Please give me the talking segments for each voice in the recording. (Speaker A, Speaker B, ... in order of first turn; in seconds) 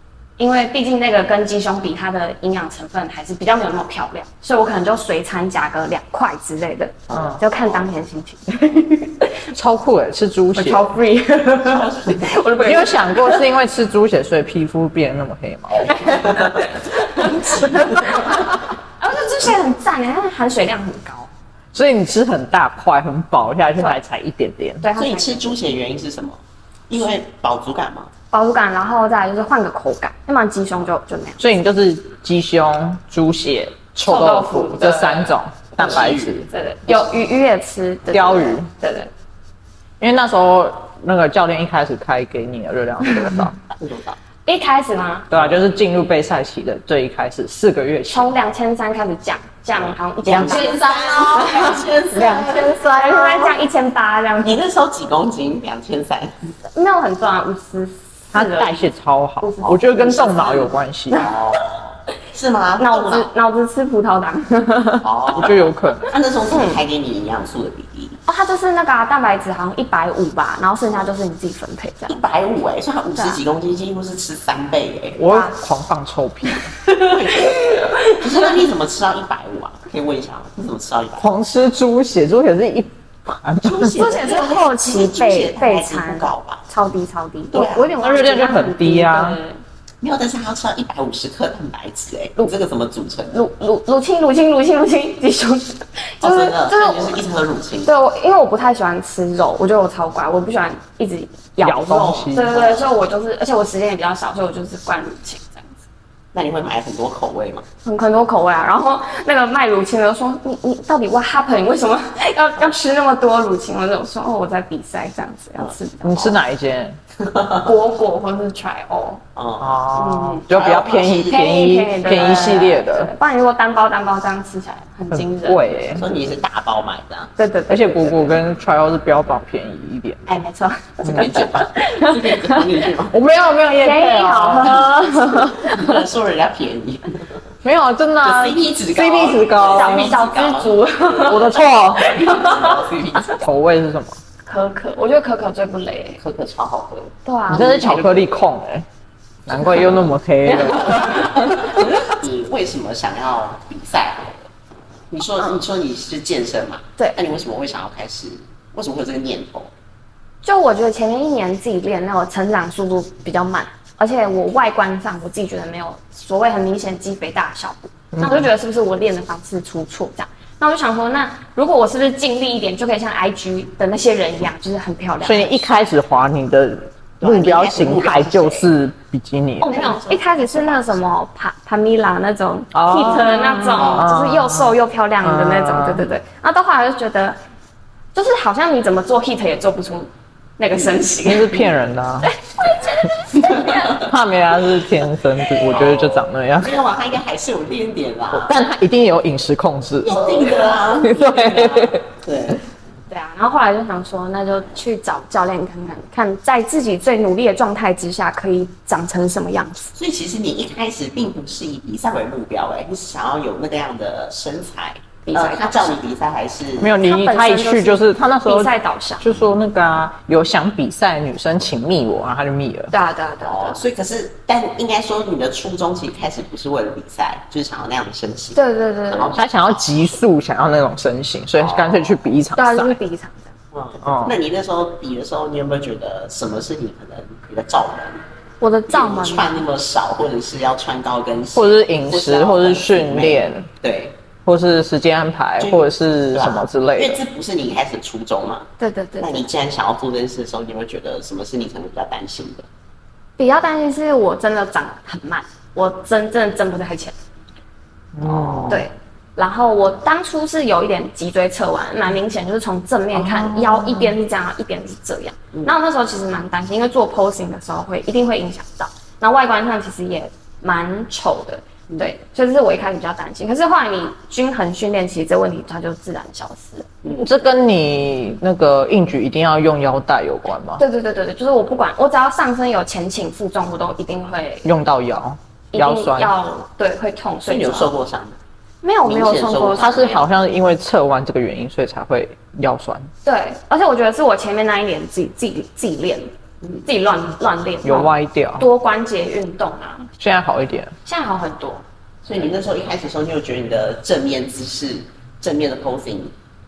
Speaker A: 0.4-9.5, 10.6-13.5, 15.8-21.3, 24.8-25.6, 28.3-31.5, 34.0-39.1, 44.5-45.3, 48.1-54.6, 56.7-61.3, 62.8-65.5, 66.5-66.8, 68.3-72.2, 75.3-75.6, 77.3-78.5, 84.0-89.6, 93.3-97.2, 97.8-105.8, 107.8-116.4, 117.6-119.2, 119.9-120.5, 121.2-125.9, 127.4-128.4, 130.3-132.7, 133.8-136.0, 139.7-142.8, 144.5-146.2, 147.2-148.0, 150.5-151.6, 160.4-175.7, 179.6-187.4, 188.1-191.7, 192.2-193.8, 203.1-209.9, 215.3-216.0, 217.0-219.3, 222.9-223.8, 228.6-229.4, 232.6-233.5, 238.6-239.6, 248.8-249.5, 253.4-257.1, 258.7-277.2, 280.8-284.7, 285.7-287.9, 288.8-289.9, 293.2-296.3, 296.9-300.1, 301.1-301.8
Speaker B: 7.1-7.9, 11.7-12.3, 15.9-18.1, 25.0-28.1, 35.8-36.5, 43.8-44.2, 45.3-45.7, 49.8-52.8, 54.4-56.5, 61.1-63.3, 65.0-68.2, 72.1-75.2, 76.9-81.3, 83.6-86.7, 87.5-88.0, 90.0-93.4, 96.2-97.9, 102.4-102.9, 106.3-107.7, 115.6-116.4, 117.2-117.7, 119.4-119.8, 120.5-121.5, 125.9-127.3, 131.0-133.2, 135.3-137.4, 138.2-143.5, 146.2-148.3, 149.5-150.1, 150.9-154.5, 155.1-159.7, 177.2-178.7, 179.7-180.9, 183.8-184.1, 193.3-194.1, 195.6-198.5, 200.1-202.6, 209.9-216.9, 223.4-229.6, 231.6-232.2, 233.7-238.2, 238.9-244.2, 245.6-248.7, 249.2-252.7, 258.2-258.8, 277.0-277.3, 287.5-288.4, 289.0-290.3, 302.2-306.3
Speaker C: 7.1-7.4, 9.5-10.9, 12.6-16.1, 21.7-24.9, 31.4-36.5, 38.1-38.7, 40.0-43.5, 45.3-48.3, 50.3-53.6, 58.3-61.3, 65.3-66.1, 75.2-76.7, 81.2-84.0, 88.0-89.4, 101.6-102.6, 116.0-117.0, 119.6-123.1, 125.1-126.1, 127.7-130.2, 133.1-134.9, 137.6-140.2, 141.2-142.2, 143.4-144.2, 147.5-148.9, 149.5-151.9, 168.1-168.5, 175.2-179.7, 182.7-186.1, 191.2-192.3, 193.8-196.8, 198.3-202.0, 216.8-222.9, 229.3-233.0, 234.0-234.4, 241.5-243.7, 244.4-247.2, 258.1-258.8, 263.1-264.1, 277.2-280.8, 284.6-286.3, 289.8-293.1, 297.8-298.7, 300.2-300.9